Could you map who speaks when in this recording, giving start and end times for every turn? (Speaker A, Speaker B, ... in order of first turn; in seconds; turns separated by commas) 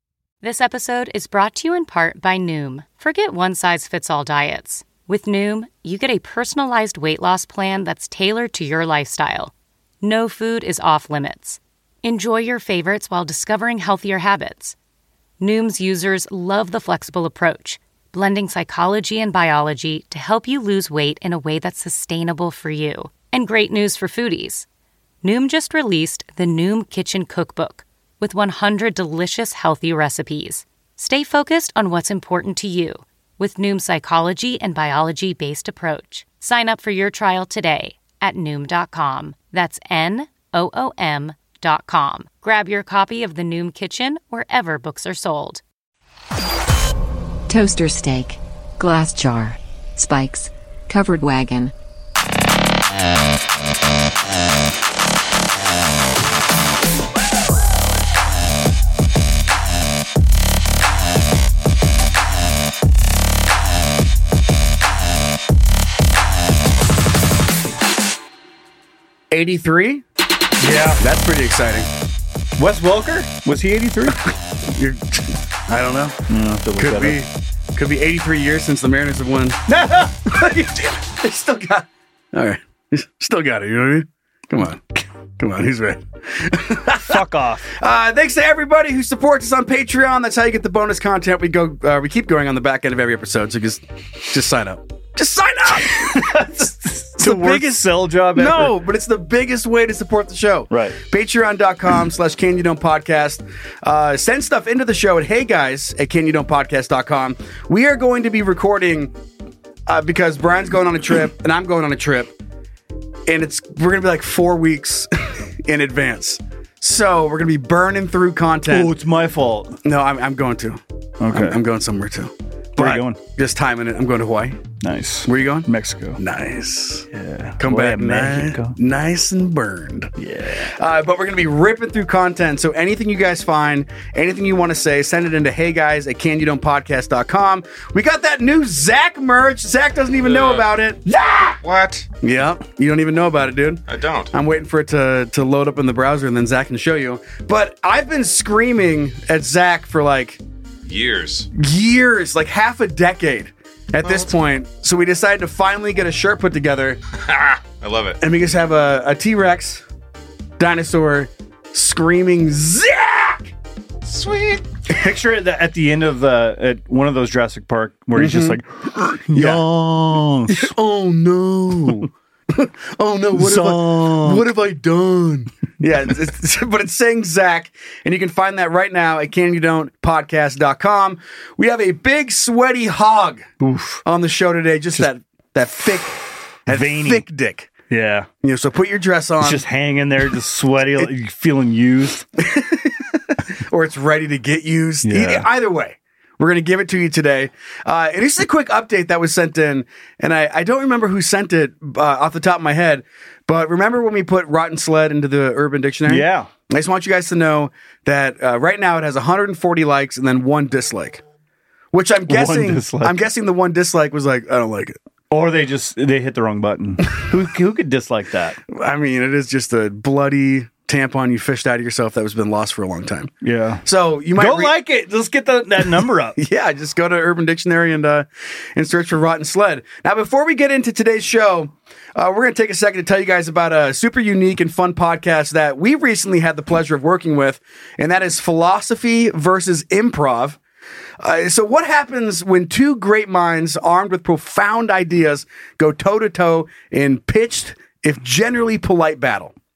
Speaker A: 0.4-14.8, Speaker A: 15.4-24.6, Speaker A: 25.2-45.6, Speaker B: 47.5-51.7, Speaker C: 69.3-70.0, Speaker D: 70.6-71.0, Speaker C: 71.0-71.9, Speaker D: 72.6-74.2, Speaker C: 74.6-76.2, Speaker D: 76.3-77.2, Speaker C: 76.8-79.6, Speaker D: 79.7-80.7, Speaker C: 80.3-87.2, Speaker D: 87.0-87.7, Speaker C: 87.8-96.6, Speaker D: 95.9-98.8, Speaker C: 97.2-109.1, Speaker D: 100.7-101.0, Speaker C: 109.9-112.3, Speaker C: 113.3-118.9, Speaker D: 118.7-119.8, Speaker C: 119.8-124.6, Speaker D: 121.2-121.6, Speaker D: 122.8-123.2, Speaker D: 124.8-126.2, Speaker C: 125.2-141.0, Speaker D: 127.1-128.8, Speaker D: 130.2-130.7, Speaker E: 140.2-140.6, Speaker E: 141.2-142.1, Speaker C: 142.2-150.4, Speaker E: 143.9-144.3, Speaker E: 150.8-151.5, Speaker C: 151.5-157.0, Speaker E: 154.0-154.3, Speaker E: 157.2-158.2, Speaker C: 158.2-159.8, Speaker C: 160.6-163.5, Speaker E: 164.0-164.7, Speaker D: 164.9-170.7, Speaker C: 168.1-169.7, Speaker C: 170.5-187.7, Speaker D: 173.3-174.5, Speaker D: 183.6-184.0, Speaker D: 186.7-187.2, Speaker D: 187.9-188.3, Speaker C: 188.4-189.6, Speaker D: 189.4-192.2, Speaker C: 192.4-211.2, Speaker D: 195.0-195.5, Speaker D: 206.1-206.5, Speaker C: 211.9-215.0, Speaker D: 212.3-213.2, Speaker D: 215.3-218.6, Speaker C: 218.7-223.3, Speaker D: 223.4-223.8, Speaker C: 223.8-224.8, Speaker D: 224.3-226.4, Speaker C: 226.3-240.6, Speaker C: 241.2-249.5